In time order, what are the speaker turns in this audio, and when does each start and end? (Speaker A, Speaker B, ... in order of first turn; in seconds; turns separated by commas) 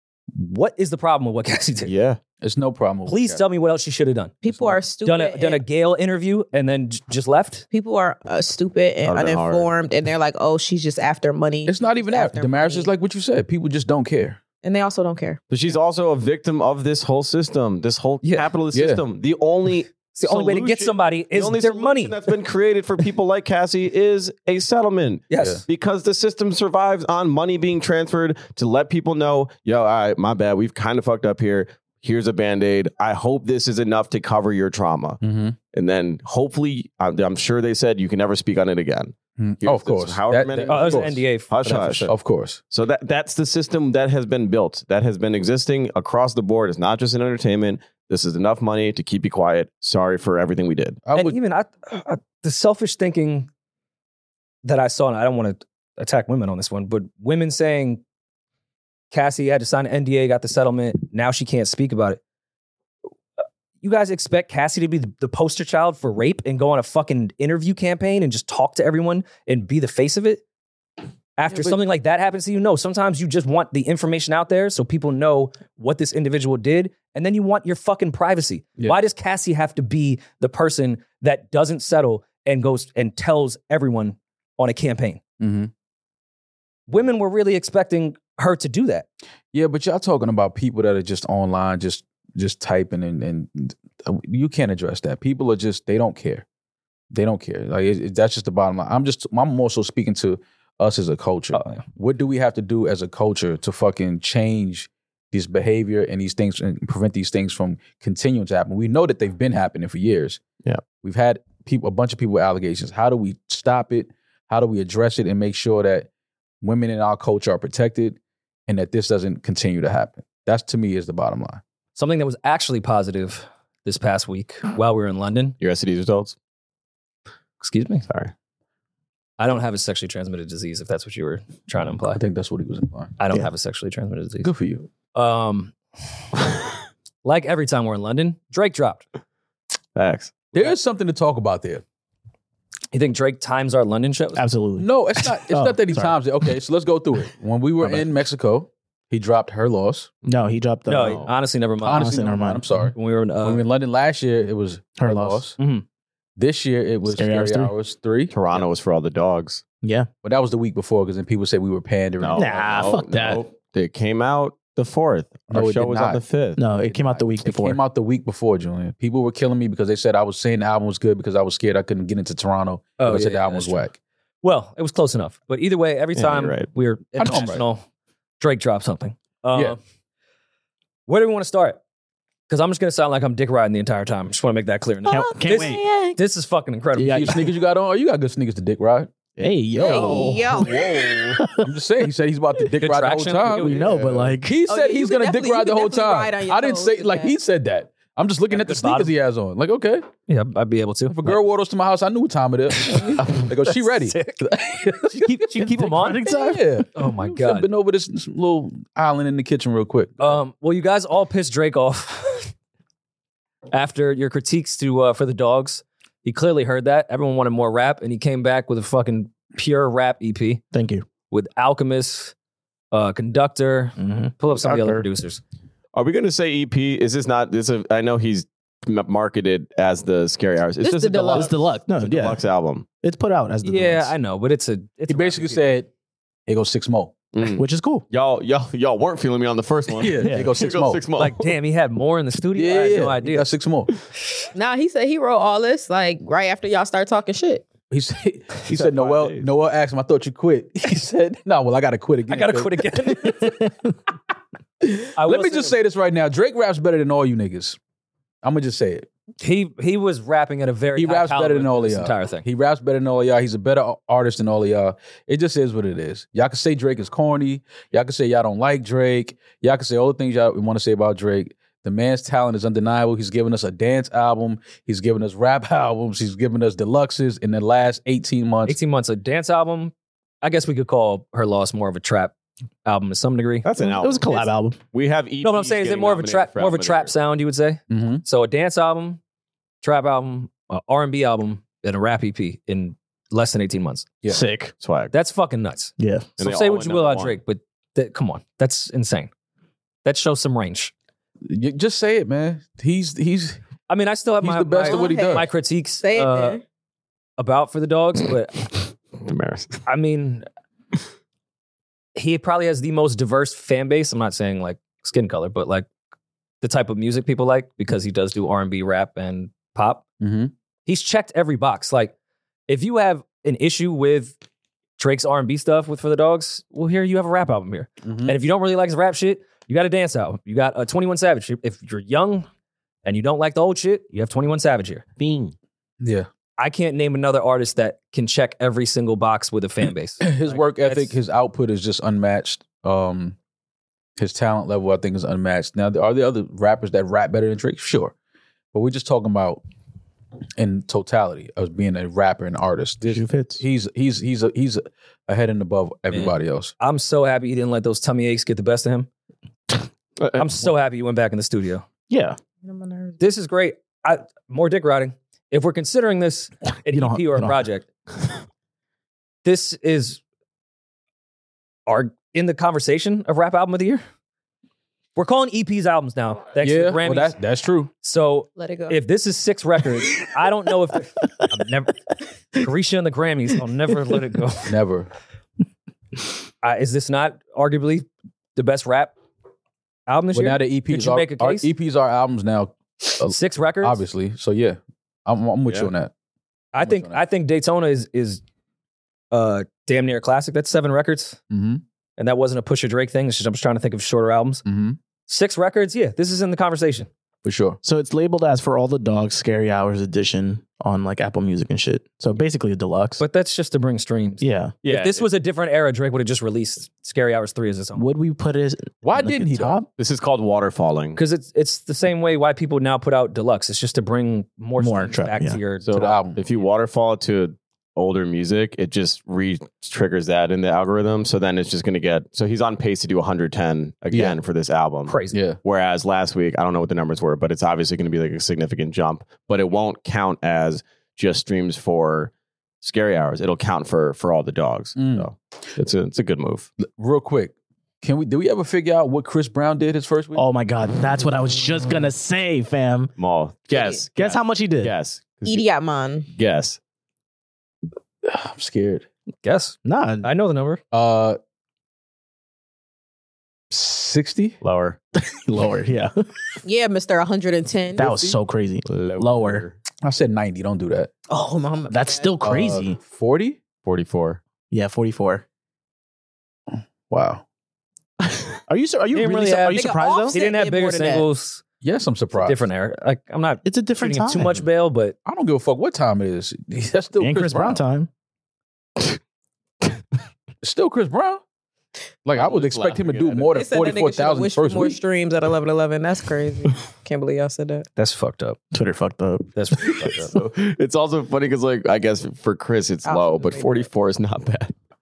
Speaker A: 0.3-1.9, Speaker B: 1.9-2.2, Speaker C: 2.4-3.4, Speaker A: 3.1-4.3, Speaker D: 4.4-5.6, Speaker C: 4.5-4.8, Speaker A: 5.0-7.7, Speaker D: 7.7-12.9, Speaker B: 9.1-9.7, Speaker C: 11.7-14.4, Speaker D: 14.6-15.4, Speaker B: 15.5-35.2, Speaker A: 18.2-18.5, Speaker C: 18.7-19.0, Speaker A: 20.2-22.2, Speaker A: 25.3-25.6, Speaker C: 35.2-35.6, Speaker B: 35.7-42.1, Speaker C: 39.4-41.2, Speaker A: 40.7-42.1, Speaker C: 42.1-42.6, Speaker B: 42.7-51.0, Speaker C: 51.0-51.4, Speaker A: 51.1-53.5, Speaker A: 54.6-58.0, Speaker A: 59.1-62.2, Speaker A: 63.8-70.4, Speaker A: 71.4-85.2, Speaker C: 85.4-85.7, Speaker A: 86.9-89.1, Speaker C: 89.5-96.5, Speaker C: 97.1-110.4, Speaker A: 101.5-101.8, Speaker C: 111.0-116.1, Speaker C: 116.6-121.6, Speaker A: 122.0-125.6, Speaker B: 125.6-126.4, Speaker A: 127.6-128.1, Speaker A: 129.4-132.2, Speaker C: 132.1-133.4, Speaker A: 133.2-134.5, Speaker C: 134.4-134.9, Speaker A: 135.1-135.8, Speaker A: 137.2-139.1, Speaker B: 140.0-140.5, Speaker C: 140.5-141.8, Speaker A: 142.9-144.4, Speaker E: 144.3-146.2, Speaker C: 144.8-150.1, Speaker E: 147.8-148.1, Speaker E: 150.3-151.2, Speaker A: 150.9-152.2, Speaker B: 151.0-151.3, Speaker C: 151.8-155.6, Speaker E: 151.9-152.9, Speaker A: 152.9-153.6, Speaker E: 155.0-155.4, Speaker A: 155.6-155.8, Speaker C: 156.4-158.7, Speaker E: 157.1-157.7, Speaker B: 158.3-159.6, Speaker E: 159.8-160.1, Speaker C: 160.2-162.5, Speaker B: 162.2-166.6, Speaker E: 162.3-163.4, Speaker C: 165.5-173.9, Speaker E: 166.6-167.8, Speaker A: 173.0-173.9, Speaker A: 174.4-177.8, Speaker B: 176.2-176.7, Speaker C: 177.2-177.7, Speaker A: 178.4-179.8, Speaker A: 181.1-181.8, Speaker A: 182.5-187.4, Speaker E: 185.1-185.9, Speaker D: 185.1-186.2, Speaker E: 187.0-187.5, Speaker C: 187.1-189.1, Speaker E: 189.4-191.7, Speaker D: 189.8-191.4, Speaker C: 189.9-200.1, Speaker A: 192.8-193.8, Speaker E: 193.5-194.6, Speaker D: 194.7-197.3, Speaker A: 198.5-199.1, Speaker A: 200.3-201.4, Speaker C: 201.1-205.4, Speaker A: 202.8-204.5, Speaker A: 205.0-206.2, Speaker E: 205.6-206.9, Speaker C: 206.2-210.4, Speaker A: 206.9-207.7, Speaker A: 210.2-212.5, Speaker A: 213.7-220.6, Speaker E: 220.7-221.1, Speaker A: 221.3-222.3, Speaker A: 222.9-225.4, Speaker E: 224.0-225.1, Speaker B: 225.9-232.9, Speaker D: 230.8-231.5, Speaker E: 231.3-232.4, Speaker E: 233.0-234.1, Speaker A: 233.6-235.7, Speaker C: 235.1-235.9, Speaker C: 236.5-237.2, Speaker B: 237.3-241.5, Speaker E: 237.5-238.1, Speaker C: 239.9-241.0, Speaker E: 240.2-240.5, Speaker A: 241.2-243.5, Speaker C: 242.6-243.9, Speaker D: 244.6-247.7, Speaker C: 247.9-253.5, Speaker B: 248.7-249.5, Speaker A: 252.3-253.7, Speaker C: 254.8-257.8, Speaker A: 255.2-255.8, Speaker C: 258.4-259.1, Speaker A: 259.4-262.4, Speaker C: 261.0-278.8, Speaker A: 278.7-282.3, Speaker A: 282.9-283.7, Speaker B: 283.6-287.1, Speaker E: 283.8-284.8, Speaker A: 285.4-289.2, Speaker C: 287.9-288.2, Speaker A: 289.8-294.1, Speaker E: 294.2-294.7, Speaker B: 294.8-295.1, Speaker A: 295.1-299.3, Speaker E: 296.0-296.3, Speaker B: 296.4-297.4, Speaker A: 300.0-300.9, Speaker C: 301.5-303.6, Speaker A: 303.9-306.6, Speaker C: 304.4-305.5, Speaker D: 304.9-305.5, Speaker D: 306.0-306.6, Speaker A: 307.4-308.7, Speaker B: 309.2-309.8, Speaker A: 309.9-310.5, Speaker A: 312.2-315.9, Speaker A: 316.6-320.0, Speaker C: 320.2-320.5, Speaker A: 320.9-322.1, Speaker A: 322.7-324.4, Speaker A: 325.0-332.5, Speaker C: 328.0-328.4, Speaker A: 333.1-335.1, Speaker B: 335.2-335.5, Speaker C: 336.0-336.3, Speaker A: 336.6-341.1, Speaker C: 340.2-343.4, Speaker C: 344.2-348.1, Speaker C: 348.7-349.6, Speaker C: 350.6-356.7, Speaker E: 353.0-353.6, Speaker A: 356.1-359.1, Speaker B: 360.2-360.5, Speaker A: 360.4-361.9, Speaker E: 362.1-362.4, Speaker D: 362.6-363.2, Speaker A: 363.2-367.9, Speaker E: 366.9-367.6, Speaker A: 369.4-370.2, Speaker A: 371.9-374.0, Speaker A: 375.2-377.4, Speaker C: 376.6-377.9, Speaker A: 378.0-382.0, Speaker D: 378.6-379.0, Speaker A: 382.6-384.7, Speaker C: 384.7-385.1, Speaker A: 386.6-389.1, Speaker A: 390.1-391.7, Speaker C: 390.3-396.1, Speaker A: 393.2-394.0, Speaker A: 396.7-398.4, Speaker C: 396.8-397.2, Speaker A: 399.3-401.4, Speaker C: 401.5-401.8, Speaker A: 402.2-404.6, Speaker C: 404.6-405.0, Speaker A: 405.3-407.1, Speaker C: 407.4-407.8, Speaker E: 407.8-413.2, Speaker A: 413.2-418.1, Speaker E: 414.4-414.7, Speaker B: 414.8-415.3, Speaker E: 417.9-419.9, Speaker C: 419.0-419.9, Speaker B: 420.0-421.2, Speaker A: 421.2-426.2, Speaker E: 424.8-425.6, Speaker B: 425.8-442.3, Speaker C: 425.9-426.4, Speaker E: 434.1-434.4, Speaker A: 435.1-435.4, Speaker C: 435.3-435.6, Speaker B: 442.8-446.7, Speaker C: 445.0-445.3, Speaker C: 446.9-450.4, Speaker E: 450.4-453.1, Speaker B: 453.2-455.7, Speaker E: 454.2-454.9, Speaker D: 455.5-456.3, Speaker B: 456.3-456.8, Speaker C: 458.2-459.1, Speaker A: 459.4-460.8, Speaker E: 459.9-460.3, Speaker C: 460.9-461.4, Speaker C: 463.7-464.6, Speaker B: 464.6-465.0, Speaker E: 465.2-466.1, Speaker D: 466.6-468.1, Speaker E: 468.0-469.6, Speaker C: 468.0-468.4, Speaker B: 468.9-469.8, Speaker C: 470.0-471.1, Speaker D: 471.3-472.4, Speaker E: 471.9-473.0, Speaker C: 472.4-473.6, Speaker B: 473.9-474.4, Speaker E: 474.7-475.4, Speaker C: 476.7-477.4, Speaker E: 478.3-480.4, Speaker A: 479.1-481.6, Speaker D: 479.7-481.2, Speaker C: 481.8-482.6, Speaker A: 482.4-485.2, Speaker E: 483.6-484.7, Speaker C: 485.3-487.8, Speaker E: 487.2-488.1, Speaker C: 490.6-491.4, Speaker C: 492.2-495.0, Speaker B: 492.4-493.7, Speaker D: 493.5-497.9, Speaker A: 498.0-498.6, Speaker E: 498.7-500.1, Speaker A: 499.6-500.3, Speaker B: 500.3-504.7, Speaker D: 503.1-503.9